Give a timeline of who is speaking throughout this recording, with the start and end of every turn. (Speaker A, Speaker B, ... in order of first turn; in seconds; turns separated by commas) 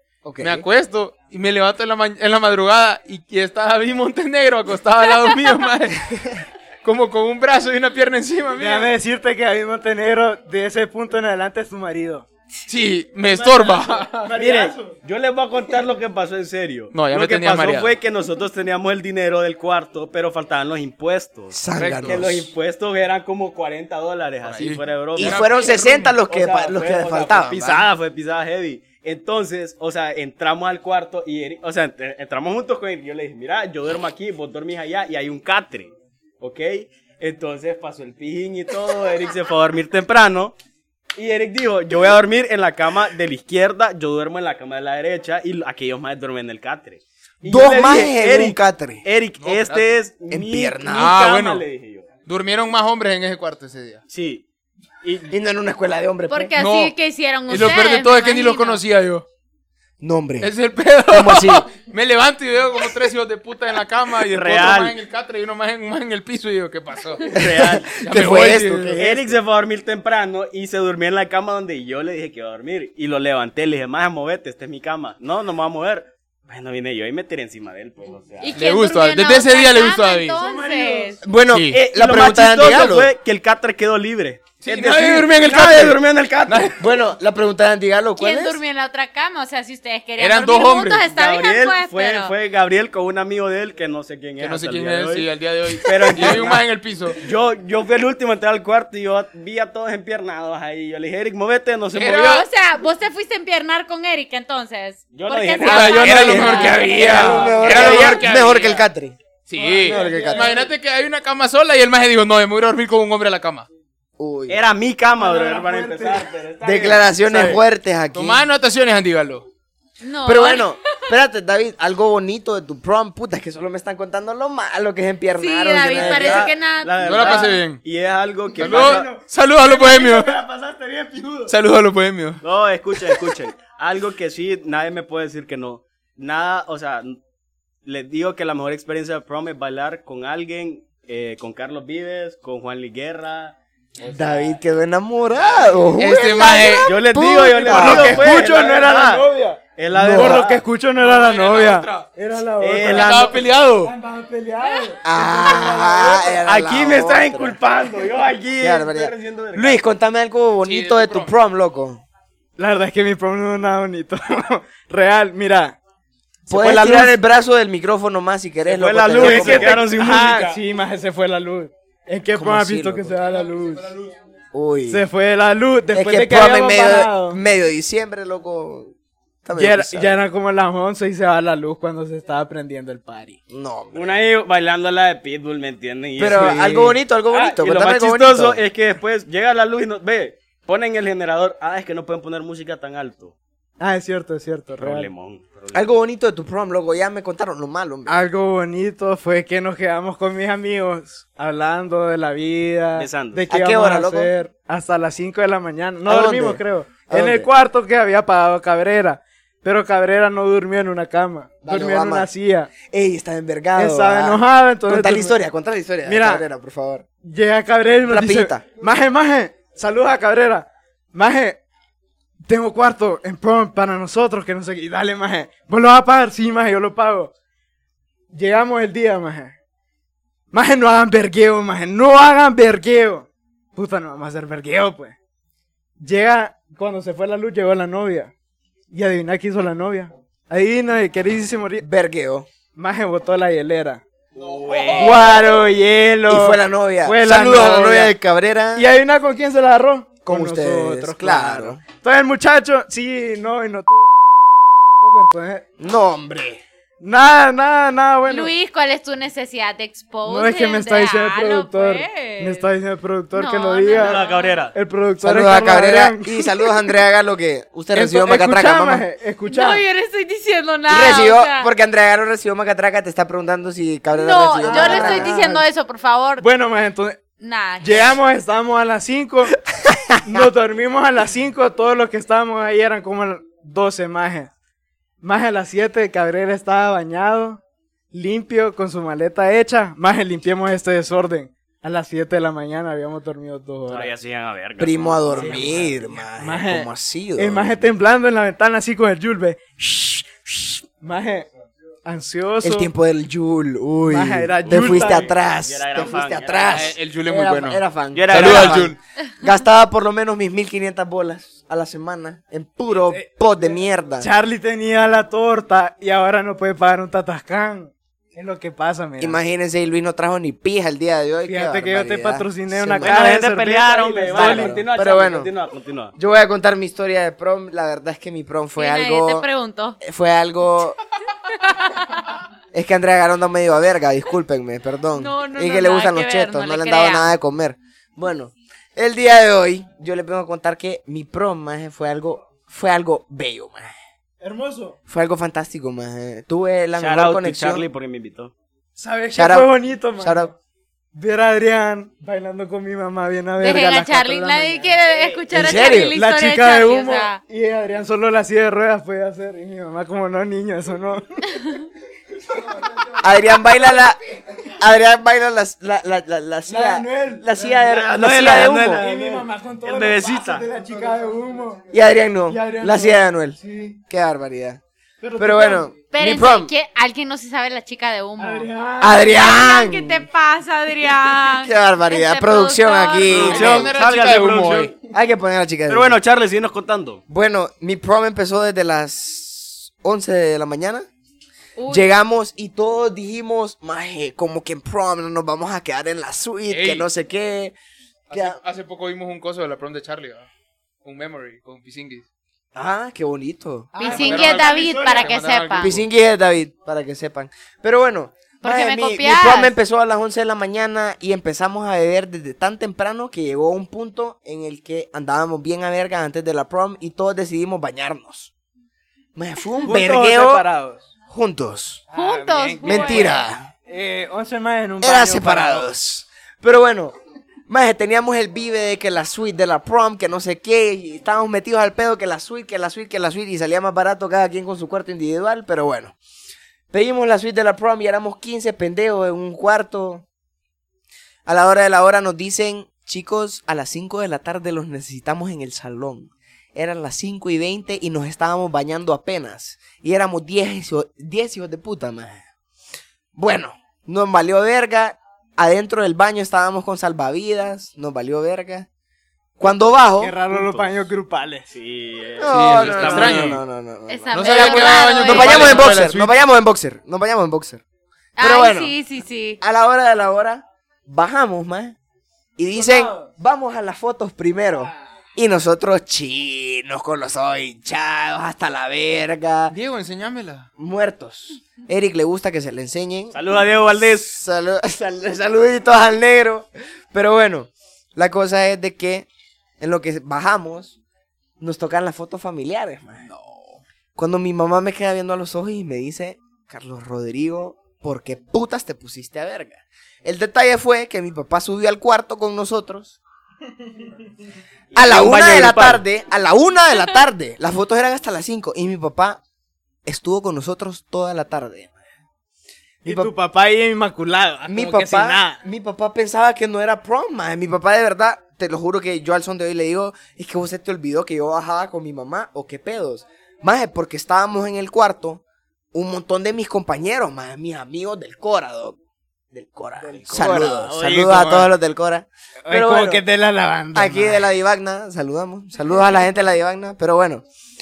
Speaker A: 0.2-0.7, Speaker B: 0.4-6.2, Speaker B: 6.8-8.9, Speaker C: 8.5-12.2, Speaker B: 12.7-14.3, Speaker C: 13.2-14.9, Speaker D: 14.3-25.7, Speaker B: 16.9-17.9, Speaker A: 21.5-22.5, Speaker B: 21.7-22.4, Speaker B: 24.4-25.7, Speaker A: 25.1-27.9, Speaker C: 25.7-26.1, Speaker D: 26.3-40.5, Speaker D: 41.2-52.1, Speaker A: 47.4-49.0, Speaker B: 49.4-50.0, Speaker A: 50.3-51.1, Speaker B: 50.9-51.6, Speaker B: 52.2-54.0, Speaker D: 54.1-54.4, Speaker D: 55.0-55.3, Speaker A: 55.3-56.5, Speaker E: 56.3-58.8, Speaker B: 56.6-56.9, Speaker B: 57.5-59.2, Speaker A: 60.0-60.5, Speaker B: 60.4-69.0, Speaker A: 61.1-61.7, Speaker D: 64.3-65.0, Speaker D: 67.3-68.0, Speaker A: 67.4-69.3, Speaker D: 69.0-78.5, Speaker E: 78.4-81.2, Speaker B: 78.5-80.4, Speaker C: 80.4-81.2, Speaker A: 81.2-83.1, Speaker B: 81.5-81.8, Speaker D: 81.7-86.8, Speaker B: 84.6-86.8, Speaker A: 86.8-88.6, Speaker E: 88.2-92.3, Speaker B: 90.2-91.1, Speaker D: 91.1-96.6, Speaker B: 94.4-97.2, Speaker D: 97.2-102.5, Speaker B: 101.9-102.4, Speaker E: 102.0-108.3, Speaker D: 105.1-107.8, Speaker B: 105.6-108.8, Speaker C: 106.1-107.6, Speaker A: 107.1-109.2, Speaker B: 109.5-113.7, Speaker C: 109.6-110.7, Speaker A: 109.8-110.5, Speaker D: 109.9-110.6, Speaker A: 114.2-114.6, Speaker D: 114.5-117.6, Speaker C: 115.1-116.3, Speaker A: 116.6-118.4, Speaker B: 118.1-119.5, Speaker E: 120.0-120.8, Speaker A: 120.2-126.5, Speaker E: 125.3-127.1, Speaker D: 125.9-129.1, Speaker B: 127.0-127.8, Speaker C: 128.5-131.5, Speaker B: 128.6-130.4, Speaker B: 131.5-132.4, Speaker D: 132.4-137.2, Speaker D: 137.8-144.5, Speaker A: 144.0-148.5, Speaker B: 145.9-146.9, Speaker D: 146.8-150.6, Speaker C: 147.6-153.3, Speaker A: 150.1-150.4, Speaker B: 150.9-152.1, Speaker D: 152.6-153.4, Speaker B: 152.8-153.9, Speaker C: 153.8-156.4, Speaker E: 154.6-154.9, Speaker A: 155.0-157.6, Speaker D: 156.4-159.8, Speaker A: 158.6-162.0, Speaker B: 160.6-161.3, Speaker C: 162.6-165.8, Speaker A: 166.5-169.8, Speaker C: 166.5-167.1, Speaker D: 168.7-170.6, Speaker C: 169.1-174.0, Speaker A: 172.3-173.2, Speaker A: 174.5-175.1, Speaker C: 174.9-177.4, Speaker A: 175.9-178.9, Speaker A: 179.4-180.2, Speaker C: 179.6-183.4, Speaker A: 183.5-184.2, Speaker D: 183.9-193.3, Speaker A: 186.2-188.6, Speaker C: 186.3-186.7, Speaker C: 193.8-195.1, Speaker D: 194.8-195.9, Speaker A: 195.7-198.2, Speaker C: 198.1-212.7, Speaker D: 202.9-203.4, Speaker A: 203.5-204.3, Speaker A: 206.1-207.5, Speaker A: 211.6-212.3, Speaker A: 212.8-217.0, Speaker C: 213.7-215.3, Speaker C: 216.0-216.4, Speaker C: 217.2-221.6, Speaker A: 218.0-218.7, Speaker C: 222.4-227.3, Speaker C: 228.3-229.5, Speaker C: 230.5-235.1, Speaker C: 236.0-238.3, Speaker C: 238.9-241.8, Speaker A: 241.8-242.5, Speaker C: 242.7-244.0, Speaker D: 244.3-245.6, Speaker B: 244.4-245.3, Speaker C: 245.0-248.1, Speaker A: 246.3-248.9, Speaker C: 248.8-254.2, Speaker A: 250.2-251.8, Speaker C: 254.9-255.7, Speaker A: 255.8-256.6, Speaker C: 257.0-258.5, Speaker E: 258.3-262.7, Speaker C: 260.2-264.2, Speaker E: 263.3-264.5, Speaker D: 263.9-264.7, Speaker C: 264.7-266.7, Speaker A: 265.2-269.0, Speaker C: 267.9-269.8, Speaker E: 269.5-271.7, Speaker A: 270.9-275.4, Speaker E: 274.1-276.4, Speaker C: 274.6-275.6, Speaker C: 276.4-277.2, Speaker E: 277.4-278.1, Speaker C: 277.8-279.6, Speaker C: 280.2-284.5, Speaker C: 285.2-287.6, Speaker C: 288.1-294.1, Speaker D: 293.9-296.1, Speaker A: 294.8-297.9, Speaker C: 295.3-301.5, Speaker C: 302.0-302.9, Speaker A: 302.6-314.3, Speaker C: 304.1-305.3, Speaker D: 305.6-306.9, Speaker B: 306.7-308.9, Speaker D: 308.1-308.9, Speaker C: 312.9-319.4, Speaker A: 319.2-323.2, Speaker C: 321.4-324.8, Speaker D: 323.0-326.1, Speaker A: 324.3-325.5, Speaker A: 326.2-329.5, Speaker E: 328.8-330.0, Speaker A: 330.0-331.0, Speaker E: 331.5-332.3, Speaker A: 332.7-343.9, Speaker E: 335.1-337.3, Speaker C: 344.4-345.0, Speaker A: 345.1-347.8, Speaker D: 347.0-348.5, Speaker C: 349.0-350.5, Speaker A: 349.3-350.5, Speaker C: 351.1-361.4, Speaker E: 353.6-357.4, Speaker A: 355.5-356.2, Speaker C: 362.5-363.1, Speaker A: 363.2-364.2, Speaker A: 364.8-369.0, Speaker C: 366.7-371.8, Speaker D: 367.9-370.6, Speaker A: 371.9-373.6, Speaker C: 372.5-374.0, Speaker A: 374.1-374.8, Speaker C: 375.2-375.8, Speaker A: 375.4-376.7, Speaker E: 376.1-378.7, Speaker C: 378.4-379.3, Speaker A: 379.0-380.3, Speaker E: 379.3-383.5, Speaker A: 381.6-383.9, Speaker D: 383.2-384.9, Speaker B: 383.4-384.9, Speaker A: 385.1-386.2, Speaker D: 385.9-387.2, Speaker A: 387.3-391.1, Speaker E: 391.8-392.1, Speaker A: 391.9-397.7, Speaker B: 396.7-397.1, Speaker B: 398.3-400.5, Speaker A: 398.3-398.6, Speaker B: 401.0-402.2, Speaker A: 402.7-403.9, Speaker C: 403.9-405.4, Speaker E: 404.0-406.0, Speaker B: 404.0-406.0, Speaker A: 405.8-418.5, Speaker E: 408.6-409.7, Speaker A: 419.3-420.6, Speaker C: 419.8-421.1, Speaker A: 421.3-422.0, Speaker C: 422.1-425.9, Speaker E: 422.1-423.4, Speaker A: 422.8-423.7, Speaker A: 425.0-427.1, Speaker A: 427.7-436.2, Speaker A: 436.9-440.2, Speaker A: 441.4-452.5, Speaker A: 453.3-458.9, Speaker A: 459.6-460.4, Speaker C: 459.6-461.7, Speaker D: 460.5-460.9, Speaker D: 461.7-463.6, Speaker A: 462.4-467.8, Speaker B: 462.5-463.6, Speaker E: 464.1-465.9, Speaker B: 464.3-466.3, Speaker E: 468.4-469.6, Speaker A: 468.4-468.9, Speaker A: 469.6-471.9, Speaker A: 472.6-479.8, Speaker C: 472.7-473.3, Speaker B: 479.7-480.7, Speaker A: 480.8-489.3, Speaker D: 483.3-484.4, Speaker A: 489.8-491.0, Speaker A: 491.6-493.2, Speaker B: 493.3-493.8, Speaker A: 494.1-503.2, Speaker D: 504.9-506.0, Speaker A: 504.9-509.4, Speaker A: 510.0-511.9, Speaker A: 513.0-513.3, Speaker C: 513.0-515.6, Speaker A: 514.6-525.4, Speaker A: 525.9-529.0, Speaker A: 529.5-533.2, Speaker C: 530.0-531.7, Speaker D: 530.8-531.3, Speaker C: 532.6-534.5, Speaker A: 533.9-537.4